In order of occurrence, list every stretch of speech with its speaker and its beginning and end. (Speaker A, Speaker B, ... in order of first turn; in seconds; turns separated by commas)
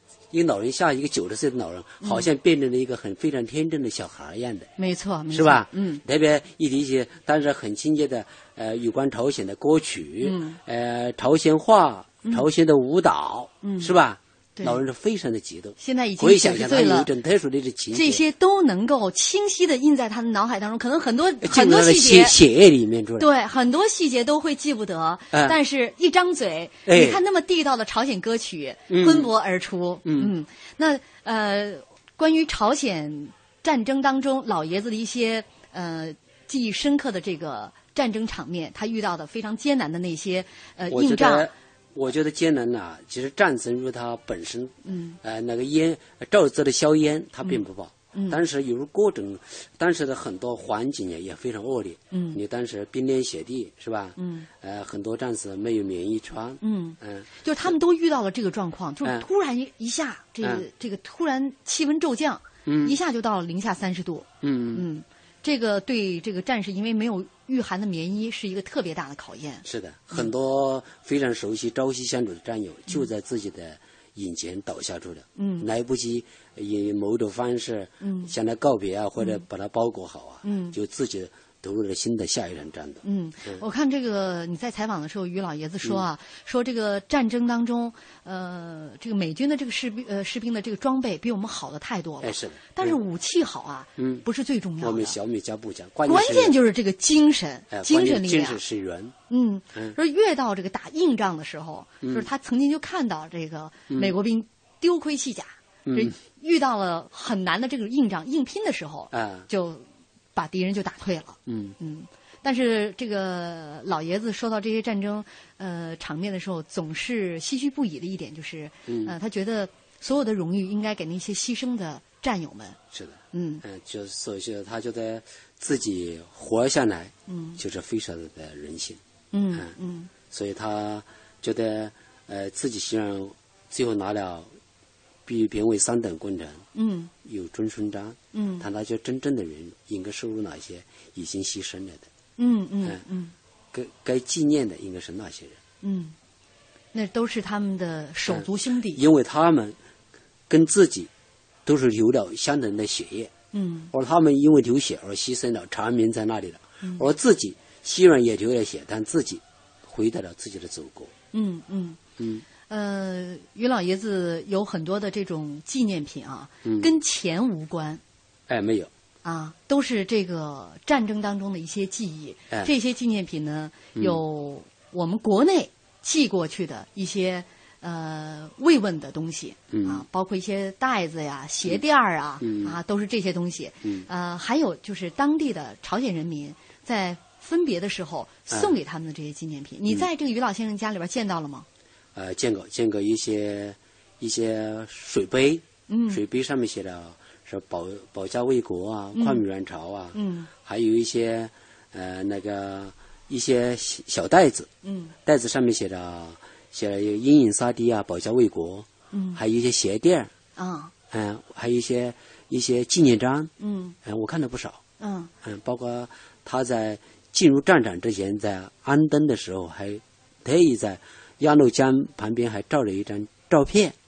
Speaker A: 0.3-4.7, Speaker B: 2.0-2.3, Speaker B: 4.8-6.0, Speaker A: 5.3-18.2, Speaker B: 10.2-10.6, Speaker B: 13.6-13.9, Speaker B: 15.8-17.1, Speaker B: 17.9-22.3, Speaker A: 21.4-23.3, Speaker B: 23.2-41.5, Speaker A: 26.9-27.2, Speaker A: 28.9-29.3, Speaker A: 30.0-30.3, Speaker A: 40.9-57.7, Speaker B: 44.8-45.2, Speaker B: 48.1-48.4, Speaker B: 52.1-52.4, Speaker B: 54.2-54.5, Speaker B: 56.6-70.3, Speaker A: 62.6-63.0, Speaker A: 64.4-64.8, Speaker A: 69.6-83.6, Speaker B: 75.4-75.7, Speaker B: 78.0-78.3, Speaker B: 80.4-80.8, Speaker B: 83.0-95.2, Speaker A: 92.2-93.0, Speaker A: 94.0-94.2, Speaker A: 94.8-96.5, Speaker B: 96.0-98.6, Speaker A: 97.7-99.1, Speaker B: 99.3-109.8, Speaker A: 103.9-104.1, Speaker A: 105.8-106.1, Speaker A: 109.1-109.5, Speaker B: 110.3-122.8, Speaker A: 111.5-111.8, Speaker A: 118.9-119.1, Speaker A: 122.9-129.0, Speaker B: 123.3-123.6, Speaker B: 127.3-127.6, Speaker B: 129.3-130.1, Speaker A: 130.3-134.5, Speaker A: 135.2-136.6, Speaker B: 136.7-137.1, Speaker A: 137.2-142.1, Speaker B: 138.3-138.7, Speaker B: 142.4-143.3, Speaker A: 143.7-145.6, Speaker B: 145.8-146.1, Speaker B: 146.9-149.0, Speaker A: 148.3-149.8, Speaker A: 150.5-151.1, Speaker A: 151.7-153.3, Speaker B: 153.5-153.9, Speaker A: 153.9-161.1, Speaker B: 161.3-162.0, Speaker A: 162.2-162.4, Speaker B: 162.7-168.0, Speaker A: 168.5-168.9, Speaker B: 169.2-191.7, Speaker A: 179.7-180.0, Speaker A: 182.4-182.8, Speaker A: 188.5-188.7, Speaker A: 192.1-204.7, Speaker B: 195.9-196.2, Speaker B: 199.1-199.4, Speaker B: 200.1-200.5, Speaker B: 204.8-205.1, Speaker A: 205.2-210.3, Speaker B: 209.1-209.4, Speaker B: 210.6-210.9, Speaker A: 211.1-213.5, Speaker B: 213.6-213.9, Speaker A: 214.0-214.8, Speaker B: 215.0-215.3, Speaker A: 215.4-223.9